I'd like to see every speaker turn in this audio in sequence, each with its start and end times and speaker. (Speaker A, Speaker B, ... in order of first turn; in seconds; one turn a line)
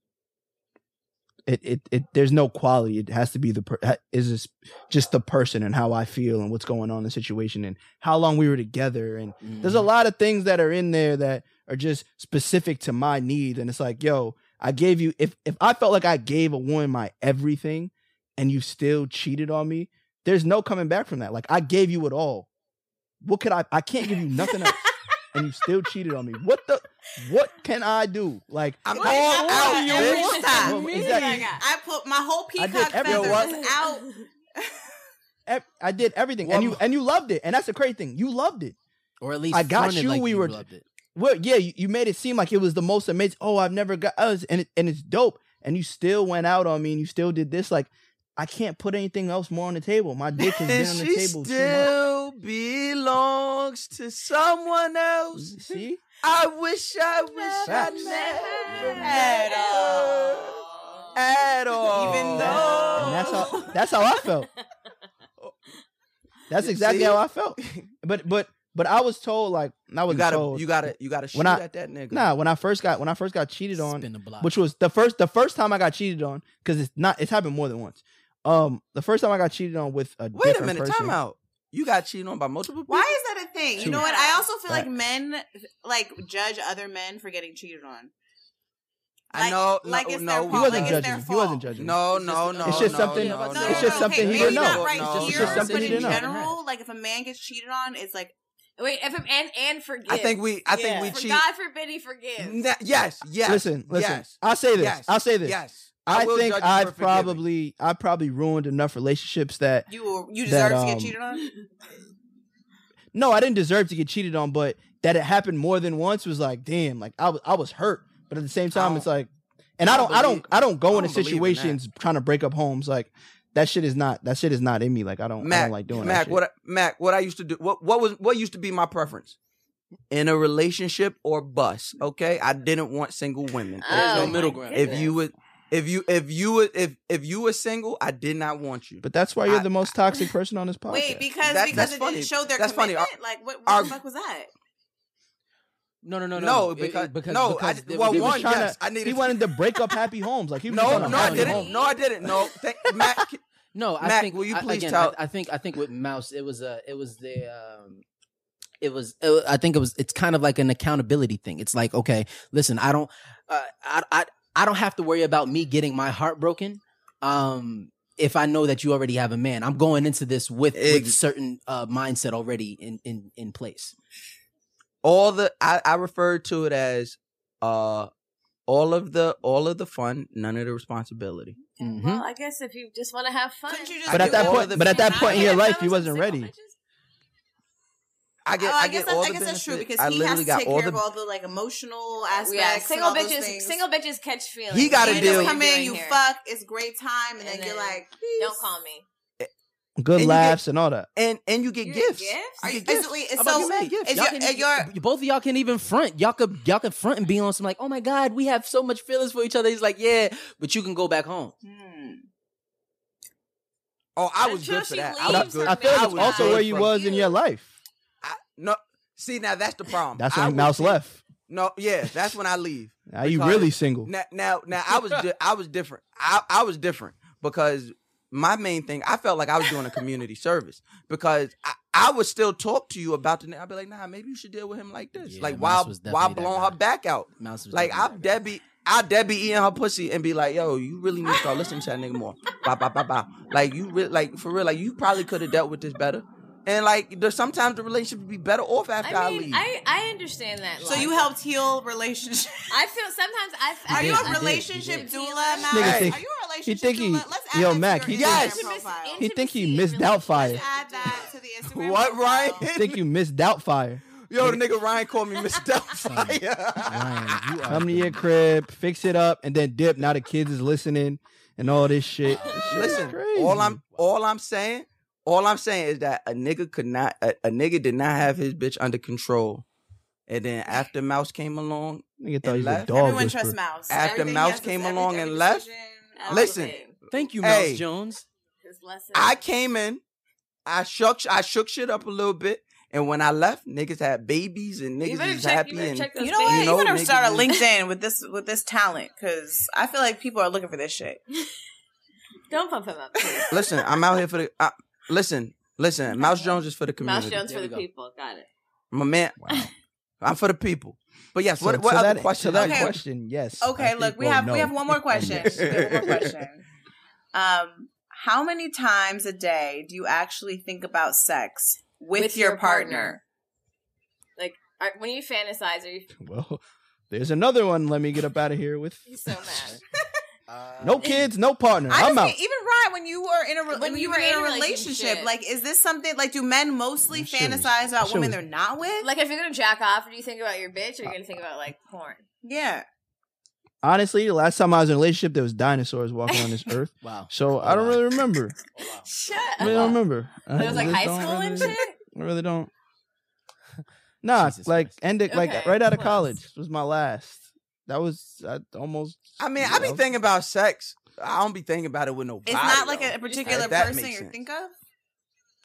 Speaker A: 1.4-22.5
Speaker B: 9.4-9.9
Speaker A: 23.2-31.6
Speaker C: 24.4-25.2
Speaker D: 28.9-30.5
Speaker E: 28.9-34.9
Speaker C: 29.0-31.6
Speaker A: 32.6-33.5
Speaker D: 33.0-33.5
Speaker C: 33.3-34.2
Speaker A: 35.5-38.7
Speaker D: 36.5-36.8
Speaker B: 39.2-40.9
Speaker A: 39.5-40.6
Speaker A: 41.1-51.9
Speaker D: 50.5-55.6
Speaker A: 55.4-56.0
Speaker D: 56.2-60.5
Speaker C: 57.3-61.2
Speaker A: 57.6-58.2
Speaker E: 58.8-61.1
Speaker D: 61.1-63.5
Speaker E: 61.9-63.5
Speaker A: 62.0-64.5
Speaker C: 62.4-64.4
Speaker A: 66.5-81.2
Speaker D: 66.6-67.8
Speaker D: 70.1-72.3
Speaker B: 73.7-74.5
Speaker D: 80.3-83.2
Speaker E: 82.9-88.1
Speaker A: 83.8-84.1
Speaker C: 83.8-84.5
Speaker E: 89.3-91.7
Speaker D: 89.3-91.1
Speaker A: 90.5-92.0
Speaker D: 91.8-95.9
Speaker B: 92.1-96.6
Speaker A: 92.6-96.2
Speaker E: 93.5-98.3
Speaker C: 98.8-102.6
Speaker D: 100.1-101.4
Speaker D: 102.4-107.4
Speaker A: 103.4-109.9
Speaker E: 109.9-111.5
Speaker A: 110.4-111.1
Speaker A: 113.1-126.4
Speaker D: 118.7-119.1
Speaker D: 119.8-121.8
Speaker D: 125.4-129.4
Speaker D: 130.1-139.7
Speaker C: 133.8-135.1
Speaker B: 133.9-135.1
Speaker A: 139.0-141.9
Speaker E: 140.9-144.5
Speaker D: 141.4-143.1
Speaker D: 143.7-144.0
Speaker B: 146.0-148.6
Speaker D: 146.3-149.5
Speaker A: 148.1-151.7
Speaker D: 150.7-153.4
Speaker B: 150.8-151.7
Speaker C: 151.2-152.1
Speaker B: 153.7-158.0
Speaker D: 154.0-155.1
Speaker B: 158.8-173.9
Speaker D: 170.7-171.2
Speaker D: 175.0-178.1
Speaker D: 178.7-181.6
Speaker B: 181.8-182.2
Speaker C: 181.8-186.8
Speaker E: 183.7-185.7
Speaker D: 184.1-185.6
Speaker A: 184.1-186.5
Speaker D: 188.5-191.0
Speaker E: 188.6-193.8
Speaker C: 192.3-196.2
Speaker D: 194.7-195.6
Speaker E: 195.0-198.7
Speaker C: 197.4-199.1
Speaker A: 200.0-201.1
Speaker D: 200.2-200.6
Speaker D: 201.2-204.2
Speaker C: 201.8-202.7
Speaker E: 202.6-204.9
Speaker B: 203.4-211.5
Speaker E: 211.6-212.2
Speaker D: 214.2-216.9
Speaker C: 214.4-217.3
Speaker A: 215.2-217.7
Speaker D: 218.2-249.6
Speaker A: 220.2-221.2
Speaker A: 223.1-224.1
Speaker B: 235.2-236.8
Speaker B: 237.4-238.3
Speaker C: 249.0-251.3
Speaker E: 250.8-252.8
Speaker C: 252.7-255.8
Speaker B: 253.9-255.1
Speaker E: 253.9-259.2
Speaker A: 255.7-258.4
Speaker D: 255.8-256.2
Speaker D: 258.1-258.7
Speaker C: 258.2-261.3
Speaker A: 259.2-260.6
Speaker E: 260.4-262.7
Speaker D: 261.6-263.0
Speaker A: 262.7-264.6
Speaker D: 264.3-267.6
Speaker B: 266.0-268.2
Speaker A: 267.7-273.8
Speaker C: 272.3-272.9
Speaker B: 272.3-274.1
Speaker D: 272.7-279.6
Speaker D: 280.3-283.1
Speaker A: 282.2-283.6
Speaker E: 282.9-286.8
Speaker D: 283.9-285.6
Speaker C: 284.0-284.7
Speaker C: 286.1-286.9
Speaker D: 286.3-286.8
Speaker B: 287.1-288.2
Speaker D: 287.4-287.8
Speaker C: 288.6-289.4
Speaker D: 289.1-290.0
Speaker D: 290.6-297.5
Speaker C: 295.0-297.6
Speaker E: 296.2-301.2
Speaker C: 302.5-304.0
Speaker D: 303.5-307.4
Speaker C: 306.1-308.5
Speaker B: 307.4-307.9
Speaker D: 308.9-309.4
Speaker A: 309.4-309.7
Speaker D: 310.2-313.0
Speaker A: 311.6-316.3
Speaker E: 312.6-312.9
Speaker E: 313.6-316.6
Speaker D: 315.2-316.3
Speaker E: 317.3-323.2
Speaker C: 322.1-323.2
Speaker C: 324.4-326.1
Speaker A: 326.1-329.7
Speaker C: 329.1-329.8
Speaker B: 330.5-331.2
Speaker A: 330.8-332.4
Speaker E: 331.9-339.1
Speaker C: 333.7-335.3
Speaker A: 337.1-338.4
Speaker C: 339.0-342.2
Speaker E: 342.4-342.9
Speaker A: 343.8-348.5
Speaker C: 346.3-346.6
Speaker B: 347.0-348.0
Speaker B: 348.8-349.1
Speaker C: 349.0-350.0
Speaker B: 349.6-350.0
Speaker A: 349.6-352.7
Speaker C: 350.6-352.0
Speaker A: 354.2-360.0
Speaker B: 354.3-355.0
Speaker C: 355.3-356.3
Speaker D: 359.4-364.3
Speaker E: 362.5-364.7
Speaker B: 363.4-363.8